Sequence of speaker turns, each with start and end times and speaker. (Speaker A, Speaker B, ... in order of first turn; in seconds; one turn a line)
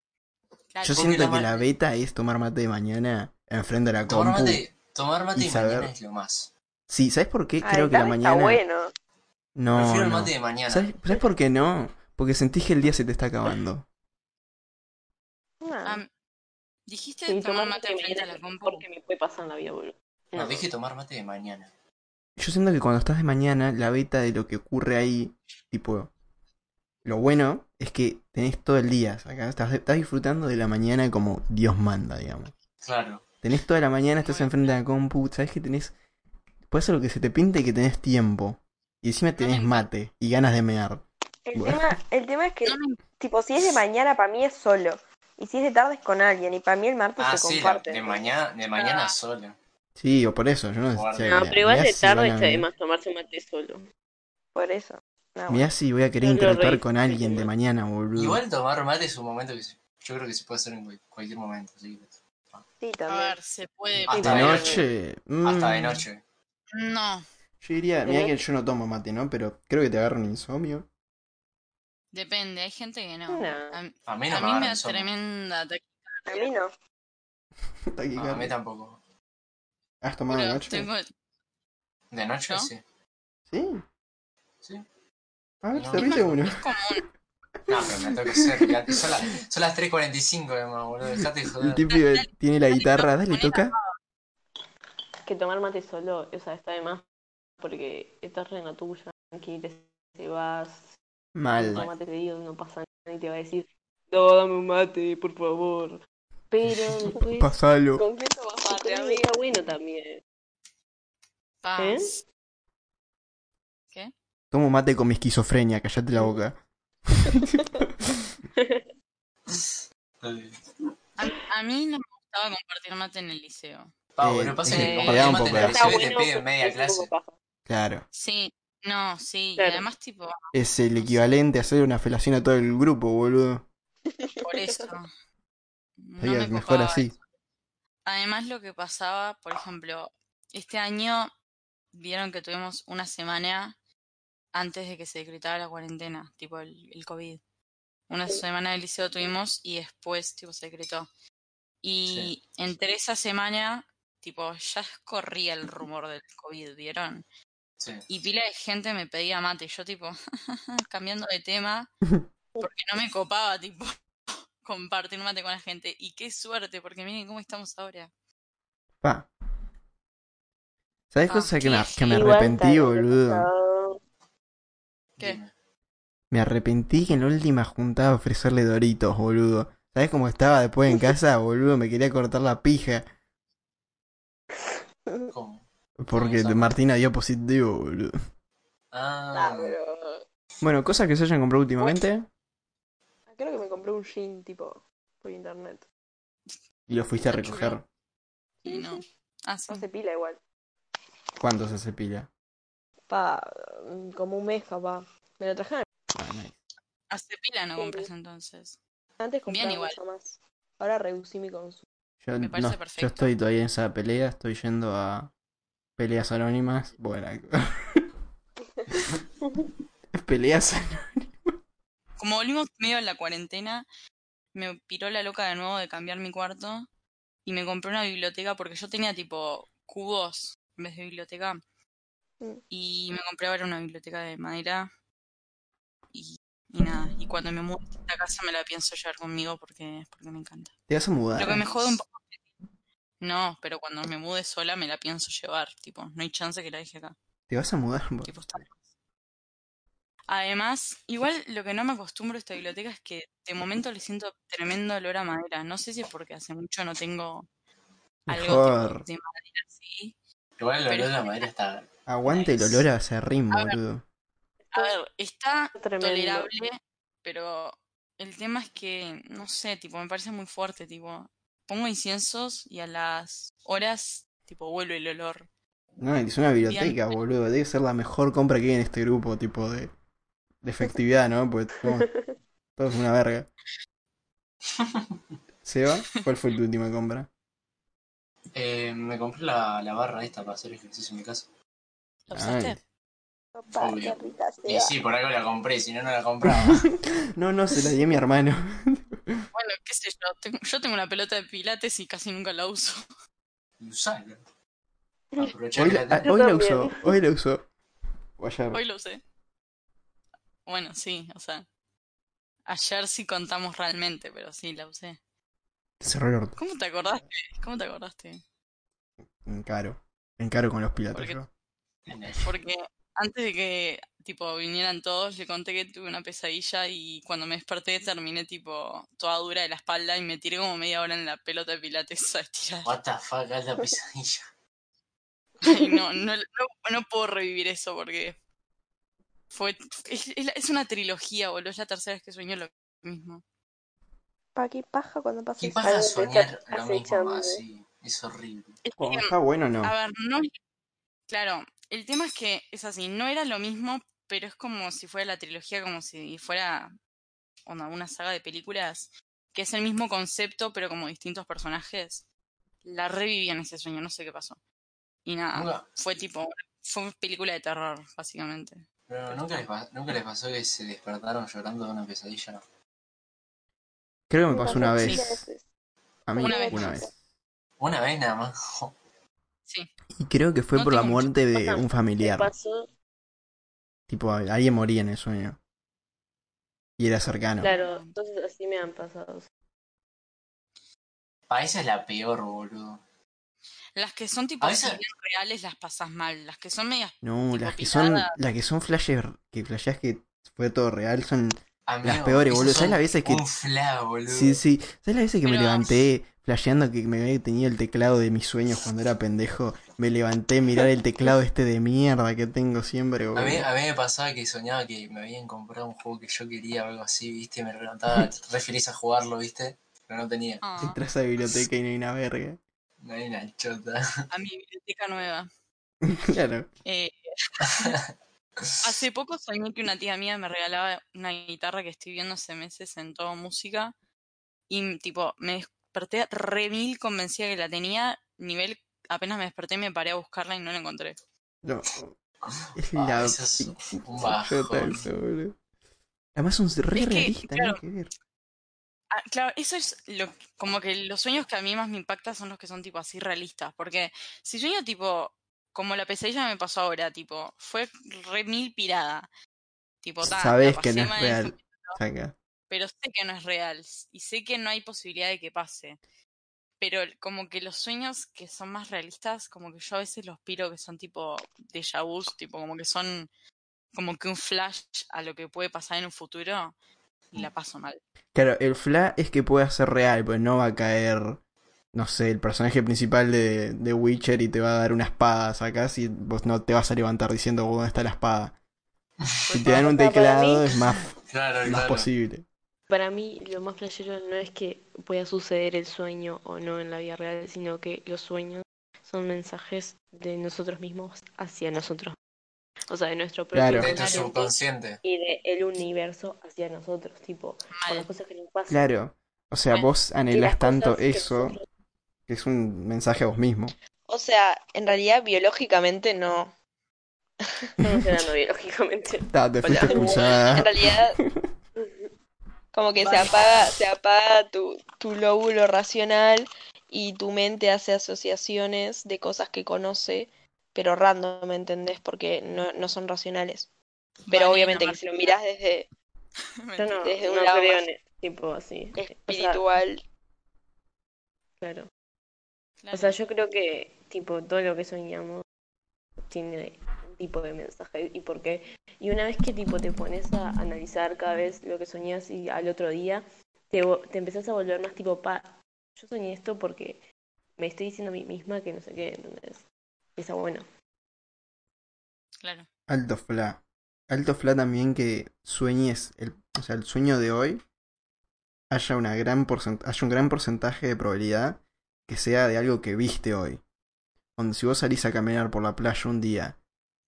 Speaker A: 0.7-1.6
Speaker B: 0.8-4.6
Speaker C: 0.9-1.6
Speaker C: 4.1-6.5
Speaker B: 5.3-5.9
Speaker B: 6.9-8.6
Speaker D: 7.6-8.9
Speaker B: 9.6-13.8
Speaker C: 9.7-10.9
Speaker D: 15.6-16.0
Speaker A: 15.8-16.1
Speaker A: 16.9-18.9
Speaker E: 17.2-20.6
Speaker C: 20.3-21.7
Speaker B: 22.4-26.1
Speaker B: 27.0-32.5
Speaker C: 32.8-33.2
Speaker B: 33.4-35.9
Speaker A: 34.2-34.8
Speaker B: 36.7-41.9
Speaker A: 39.4-39.9
Speaker D: 41.5-48.3
Speaker A: 42.6-43.0
Speaker C: 47.2-49.6
Speaker A: 48.8-49.1
Speaker B: 50.0-52.7
Speaker C: 50.9-51.6
Speaker E: 51.2-53.8
Speaker D: 54.5-55.7
Speaker B: 55.5-58.4
Speaker E: 56.2-57.5
Speaker C: 58.1-62.6
Speaker D: 62.8-63.4
Speaker A: 63.1-64.7
Speaker C: 64.1-64.8
Speaker E: 64.1-64.8
Speaker B: 64.2-66.0
Speaker C: 65.4-66.2
Speaker A: 66.7-67.2
Speaker B: 67.6-70.9
Speaker E: 68.0-68.3
Speaker A: 72.1-76.5
Speaker E: 73.3-73.8
Speaker C: 74.0-75.1
Speaker D: 76.3-76.7
Speaker B: 77.9-78.5
Speaker C: 78.2-79.0
Speaker B: 80.0-80.9
Speaker A: 80.3-81.1
Speaker C: 82.1-82.8
Speaker B: 83.5-83.8
Speaker B: 85.6-86.6
Speaker C: 85.7-86.6
Speaker A: 85.9-87.0
Speaker C: 87.7-91.8
Speaker B: 87.7-89.0
Speaker B: 91.6-93.7
Speaker A: 91.9-93.9
Speaker E: 95.2-97.0
Speaker E: 97.6-100.9
Speaker B: 101.3-101.8
Speaker E: 101.5-107.5
Speaker B: 107.3-108.0
Speaker D: 108.0-109.3
Speaker E: 108.6-110.2
Speaker A: 111.6-112.2
Speaker E: 111.8-112.2
Speaker B: 114.5-116.6
Speaker B: 117.1-117.8
Speaker E: 118.6-118.8
Speaker C: 120.2-120.6
Speaker A: 121.2-123.9
Speaker C: 124.1-127.1
Speaker B: 124.2-125.9
Speaker E: 124.7-127.3
Speaker A: 124.9-125.3
Speaker B: 127.7-128.0
Speaker A: 128.1-131.3
Speaker E: 129.6-129.9
Speaker B: 130.5-133.7
Speaker A: 134.4-135.1
Speaker A: 136.0-137.2
Speaker B: 136.2-137.1
Speaker A: 138.0-141.3
Speaker A: 141.9-143.8
Speaker A: 144.5-147.4
Speaker A: 148.1-151.1
Speaker A: 151.8-157.2
Speaker C: 152.1-152.3
Speaker C: 157.8-158.0
Speaker A: 158.1-161.9
Speaker A: 162.6-164.0
Speaker A: 164.6-168.1
Speaker B: 169.0-169.3
Speaker B: 171.1-173.5
Speaker A: 171.3-172.4
Speaker E: 172.1-174.0
Speaker C: 175.2-175.5
Speaker B: 176.3-183.1
Speaker D: 185.1-185.3
Speaker C: 185.3-186.8
Speaker B: 186.0-188.1
Speaker C: 188.9-189.8
Speaker D: 189.3-190.2
Speaker B: 190.6-192.3
Speaker D: 193.3-195.8
Speaker B: 196.9-197.8
Speaker A: 197.3-197.8
Speaker D: 198.6-199.0
Speaker A: 198.7-199.9
Speaker D: 199.7-200.4
Speaker B: 201.4-202.3
Speaker D: 203.1-205.8
Speaker B: 206.1-206.5
Speaker A: 207.1-208.8
Speaker D: 207.8-208.1
Speaker D: 209.2-211.8
Speaker A: 209.5-210.0
Speaker B: 212.2-215.3
Speaker A: 212.4-213.3
Speaker B: 216.0-218.1
Speaker B: 220.1-221.5
Speaker A: 222.2-223.8
Speaker A: 224.5-226.9
Speaker A: 227.4-231.6
Speaker A: 232.7-234.9
Speaker A: 236.1-240.7
Speaker B: 240.9-241.7
Speaker A: 241.3-242.4
Speaker A: 243.2-247.2
Speaker B: 247.5-248.6
Speaker A: 248.2-248.8
Speaker A: 250.3-257.5
Speaker B: 258.3-259.1
Speaker A: 258.3-260.1
Speaker C: 260.6-262.9
Speaker A: 260.9-261.5
Speaker B: 262.1-264.0
Speaker E: 264.7-265.0
Speaker A: 264.7-275.5
Speaker E: 265.7-266.5
Speaker B: 276.0-279.9
Speaker A: 276.6-277.1
Speaker B: 280.6-282.1
Speaker B: 282.8-283.5
Speaker C: 284.8-285.1
Speaker B: 285.6-287.3
Speaker C: 288.5-291.5
Speaker A: 292.3-292.8
Speaker B: 292.3-292.8
Speaker D: 293.6-294.9
Speaker C: 293.8-296.9
Speaker B: 296.4-299.4
Speaker A: 299.5-303.1
Speaker C: 303.8-304.4
Speaker C: 305.4-306.3
Speaker B: 305.8-307.7
Speaker E: 306.2-307.1
Speaker B: 308.4-308.8
Speaker A: 308.7-309.2
Speaker A: 310.6-311.7
Speaker A: 312.7-315.2
Speaker B: 316.0-316.6
Speaker A: 316.6-318.4
Speaker B: 319.4-321.5
Speaker A: 321.1-321.4
Speaker C: 322.1-322.5
Speaker A: 322.4-332.9
Speaker C: 332.8-334.5
Speaker A: 335.6-338.4
Speaker A: 339.5-343.4
Speaker D: 344.5-346.1
Speaker C: 345.6-348.8
Speaker E: 345.9-347.6
Speaker A: 348.8-350.5
Speaker B: 349.0-349.9
Speaker A: 351.3-356.9
Speaker A: 357.6-362.2
Speaker A: 362.8-364.6
Speaker A: 365.2-369.4
Speaker C: 365.5-365.9
Speaker C: 369.1-372.6
Speaker B: 374.3-375.4
Speaker D: 374.5-375.6
Speaker A: 374.9-375.2
Speaker B: 376.3-377.1
Speaker D: 376.3-377.1
Speaker A: 376.4-377.0
Speaker C: 377.8-378.9
Speaker B: 380.1-382.5
Speaker A: 380.7-381.3
Speaker E: 381.5-382.9
Speaker B: 384.1-385.6
Speaker B: 387.0-387.7
Speaker E: 387.6-389.5
Speaker A: 387.6-388.1
Speaker C: 391.5-393.0
Speaker A: 393.9-398.3
Speaker C: 394.6-395.0
Speaker B: 397.2-403.4
Speaker C: 401.9-404.6
Speaker B: 404.3-413.6
Speaker A: 405.4-405.9
Speaker C: 413.3-420.6
Speaker A: 420.6-421.0
Speaker B: 420.8-422.6
Speaker C: 423.0-424.1
Speaker A: 424.3-425.5
Speaker B: 426.0-426.7
Speaker A: 426.8-427.9
Speaker A: 428.8-433.9
Speaker A: 434.7-441.2
Speaker B: 441.6-442.2
Speaker C: 442.4-445.1
Speaker B: 442.7-445.6
Speaker B: 446.3-448.1
Speaker A: 446.9-447.8
Speaker A: 449.1-459.3
Speaker A: 460.0-462.0
Speaker B: 460.2-462.3
Speaker A: 462.7-466.0
Speaker A: 466.8-473.3
Speaker A: 473.9-476.7
Speaker A: 477.3-478.0
Speaker B: 478.3-481.4
Speaker B: 481.9-488.6
Speaker A: 489.4-489.8
Speaker B: 489.5-491.1
Speaker E: 489.6-490.7
Speaker C: 491.3-492.1
Speaker B: 491.6-492.4
Speaker E: 492.9-502.1
Speaker E: 502.9-508.8
Speaker B: 503.5-503.9
Speaker C: 503.7-505.0
Speaker A: 503.8-504.4
Speaker A: 507.8-508.1
Speaker B: 508.7-511.6
Speaker E: 510.3-511.6
Speaker B: 512.3-513.7
Speaker D: 514.1-516.5
Speaker D: 517.4-517.7
Speaker E: 517.8-520.3
Speaker B: 519.3-521.5
Speaker D: 519.6-521.2
Speaker E: 521.8-522.1
Speaker D: 522.7-533.7
Speaker E: 523.0-523.7
Speaker A: 534.3-535.4
Speaker D: 534.3-535.9
Speaker A: 536.6-537.0
Speaker E: 536.8-539.6
Speaker D: 537.0-537.8
Speaker D: 539.0-540.0
Speaker E: 541.6-541.9
Speaker A: 542.8-543.2
Speaker E: 542.9-545.4
Speaker E: 546.3-557.0
Speaker E: 557.6-560.6
Speaker A: 562.4-562.7
Speaker B: 562.9-567.6
Speaker B: 568.7-573.6
Speaker B: 574.4-576.6